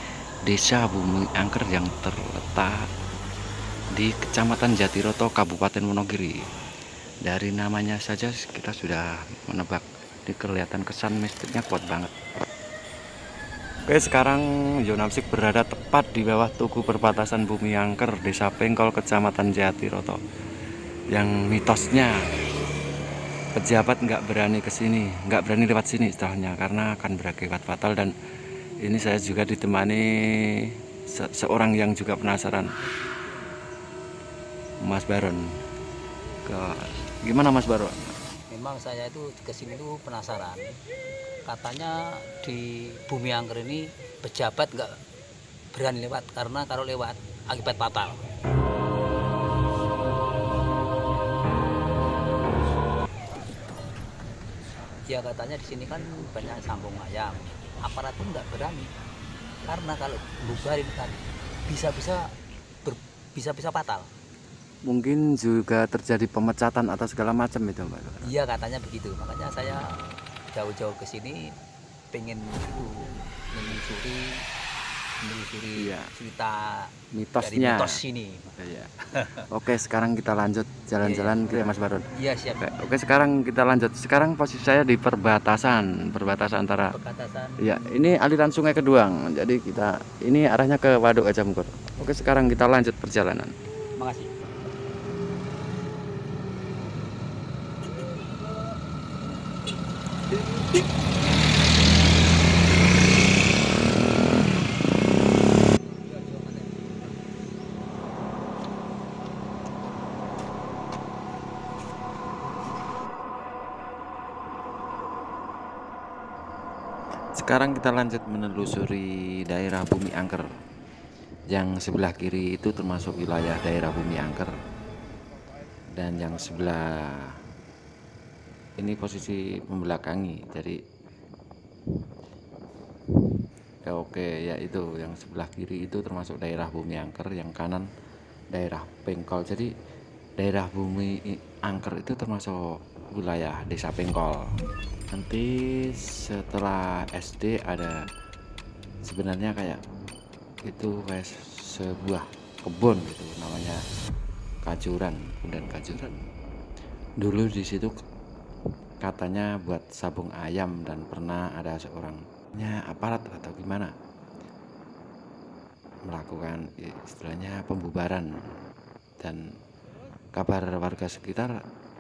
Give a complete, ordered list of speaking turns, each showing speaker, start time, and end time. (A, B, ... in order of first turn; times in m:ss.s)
0:00.5-0:02.9 A
0:03.9-0:06.4 A
0:07.3-0:12.1 A
0:13.9-0:20.2 A
0:21.1-0:22.2 A
0:23.6-0:28.1 A
0:28.8-0:32.7 A
0:34.8-0:35.5 A
0:36.4-0:38.1 A
0:38.5-0:40.8 B
0:41.4-0:45.0 B
0:45.7-0:48.2 B
0:55.1-0:58.9 B
0:59.6-1:04.1 B
1:04.9-1:08.3 A
1:08.2-1:11.6 B
1:12.1-1:14.4 B
1:15.2-1:18.6 B
1:15.8-1:16.1 A
1:17.1-1:18.0 A
1:18.6-1:27.0 A
1:21.0-1:22.7 B
1:26.9-1:27.7 B
1:27.6-1:33.5 A
1:34.0-1:34.3 B
1:57.4-2:00.4 A
2:01.5-2:04.5 A
2:06.0-2:07.4 A
2:08.8-2:10.8 A
2:13.8-2:17.9 A
2:18.5-2:19.7 A
2:20.4-2:22.6 A
2:23.1-2:24.4 A
2:25.1-2:28.0 A
2:29.0-2:29.8 A
2:30.6-2:33.8 A
2:34.6-2:36.2 A
2:37.2-2:37.9 A
2:39.0-2:43.9 A
2:46.1-2:48.3 A
2:50.4-2:51.6 A